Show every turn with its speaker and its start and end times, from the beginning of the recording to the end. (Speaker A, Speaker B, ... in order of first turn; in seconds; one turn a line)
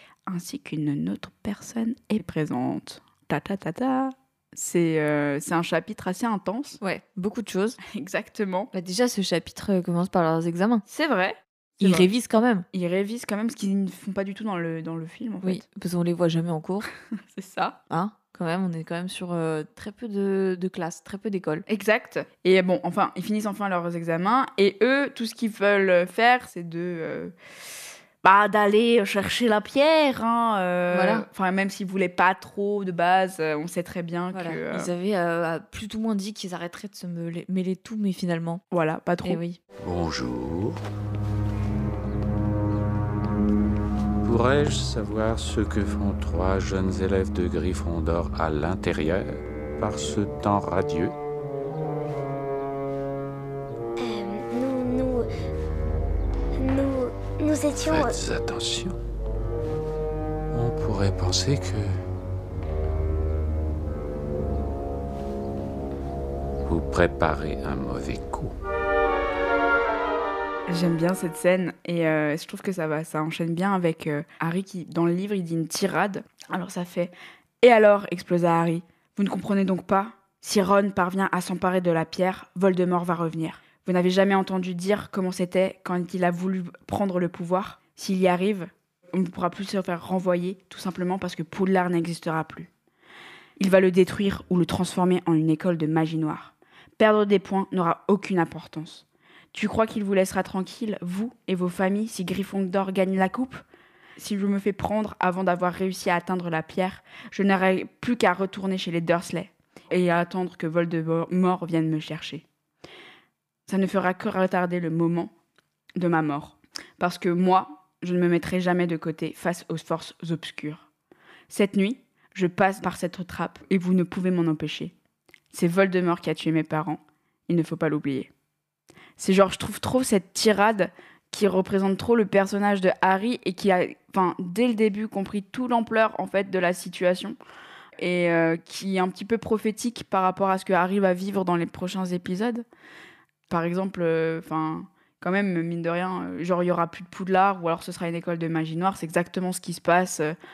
Speaker A: 0.3-6.8
Speaker B: 6.8-7.8
Speaker A: 7.8-8.7
Speaker B: 8.7-10.8
Speaker A: 10.9-12.1
Speaker B: 11.8-12.7
Speaker A: 12.7-15.6
Speaker B: 15.4-16.9
Speaker A: 17.3-17.8
Speaker B: 17.9-21.7
Speaker A: 21.7-27.4
Speaker A: 28.2-34.9
Speaker B: 30.9-31.3
Speaker B: 34.3-38.6
Speaker A: 38.7-39.4
Speaker B: 39.2-39.6
Speaker C: 39.8-40.8
Speaker C: 44.2-51.1
Speaker D: 54.0-55.3
Speaker D: 56.6-58.2
Speaker C: 57.8-59.0
Speaker C: 60.5-62.0
Speaker C: 66.7-68.5
Speaker A: 70.7-92.7
Speaker A: 93.6-103.6
Speaker A: 104.2-112.5
Speaker A: 113.7-115.3
Speaker A: 116.0-120.9
Speaker A: 121.5-124.9
Speaker A: 125.5-128.3
Speaker A: 129.2-137.4
Speaker A: 138.0-142.7
Speaker A: 143.5-150.4